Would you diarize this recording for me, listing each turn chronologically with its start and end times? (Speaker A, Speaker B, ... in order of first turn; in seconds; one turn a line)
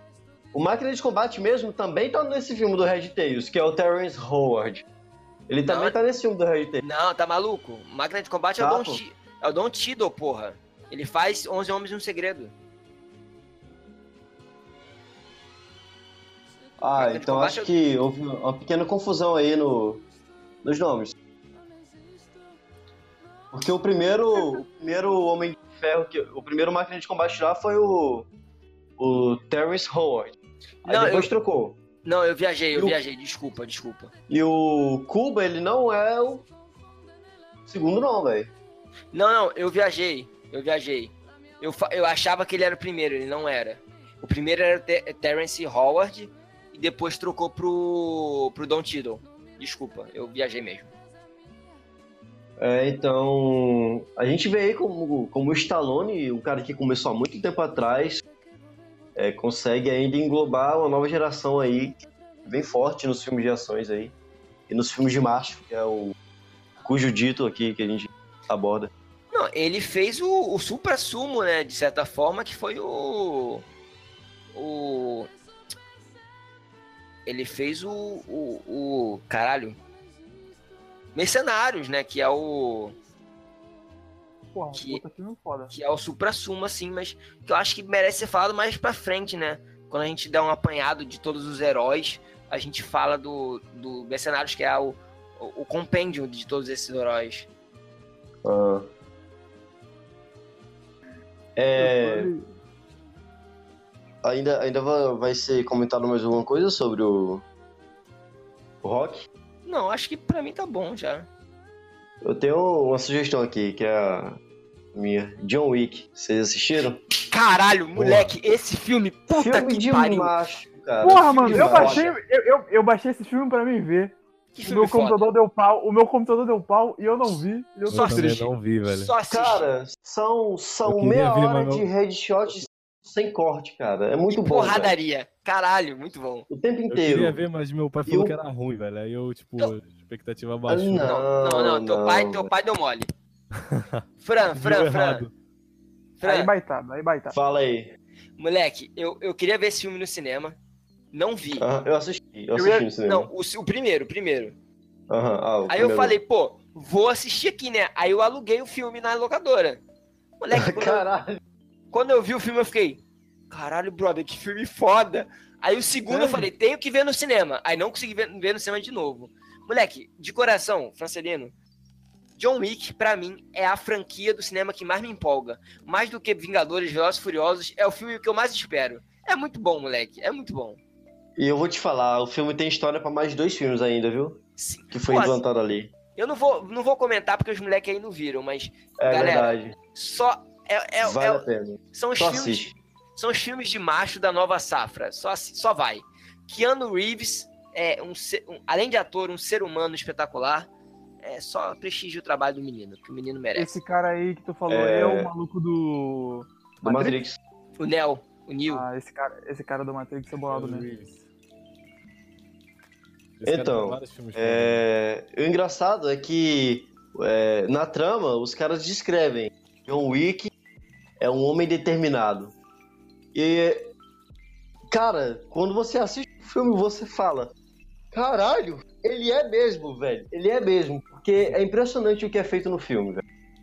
Speaker A: 0.5-4.8
Speaker A: 5.5-6.8
Speaker B: 5.7-6.0
Speaker B: 6.8-12.5
Speaker A: 8.6-9.0
Speaker A: 16.8-20.1
Speaker B: 17.0-17.7
Speaker A: 20.6-21.1
Speaker A: 23.5-28.3
Speaker A: 29.0-31.8
Speaker B: 30.9-31.3
Speaker B: 32.0-34.1
Speaker A: 32.7-33.0
Speaker A: 34.3-36.5
Speaker A: 37.7-38.5
Speaker B: 39.1-50.9
Speaker A: 52.6-58.2
Speaker A: 59.2-64.2
Speaker A: 64.7-66.2
Speaker A: 66.8-68.9
Speaker B: 69.3-73.7
Speaker B: 74.5-75.3
Speaker B: 77.3-79.8
Speaker B: 81.2-83.0
Speaker C: 84.5-85.7
Speaker B: 84.7-85.0
Speaker B: 85.7-97.5
Speaker A: 98.5-98.9
Speaker A: 101.6-102.3
Speaker C: 101.8-102.5
Speaker A: 104.2-107.4
Speaker A: 108.8-109.3
Speaker B: 109.7-111.3
Speaker A: 112.2-114.4
Speaker A: 114.9-117.0
Speaker B: 117.3-120.3
Speaker D: 118.0-118.3
Speaker A: 119.3-122.1
Speaker C: 121.0-128.5
Speaker B: 121.3-122.2
Speaker B: 124.5-125.3
Speaker B: 127.9-129.7
Speaker D: 127.9-129.1
Speaker A: 129.3-134.9
Speaker D: 130.9-131.9
Speaker B: 134.3-136.5
Speaker A: 136.5-137.4
Speaker D: 136.9-141.1
Speaker A: 138.1-138.4
Speaker A: 140.7-142.5
Speaker B: 141.0-143.1
Speaker D: 143.6-145.3
Speaker B: 144.2-145.3
Speaker B: 146.2-146.5
Speaker C: 146.2-147.4
Speaker A: 147.3-147.9
Speaker B: 148.4-150.6
Speaker B: 151.1-151.7
Speaker A: 151.6-153.3
Speaker B: 152.6-154.6
Speaker A: 155.1-156.2
Speaker B: 155.7-159.8
Speaker B: 160.4-161.1
Speaker A: 160.5-161.4
Speaker B: 161.9-171.5
Speaker C: 166.1-166.5
Speaker B: 172.4-180.8
Speaker A: 181.4-184.4
Speaker B: 184.6-185.4
Speaker A: 184.9-185.9
Speaker B: 186.2-200.7
Speaker A: 189.0-189.8
Speaker A: 191.0-192.7
Speaker B: 201.2-203.8
Speaker C: 203.6-207.2
Speaker A: 204.7-205.3
Speaker A: 206.8-207.4
Speaker B: 207.8-208.8
Speaker C: 208.7-210.9
Speaker D: 210.5-211.2
Speaker D: 213.4-214.8
Speaker A: 213.4-220.5
Speaker A: 221.2-222.5
Speaker A: 223.3-223.9
Speaker A: 224.9-227.5
Speaker A: 228.1-233.2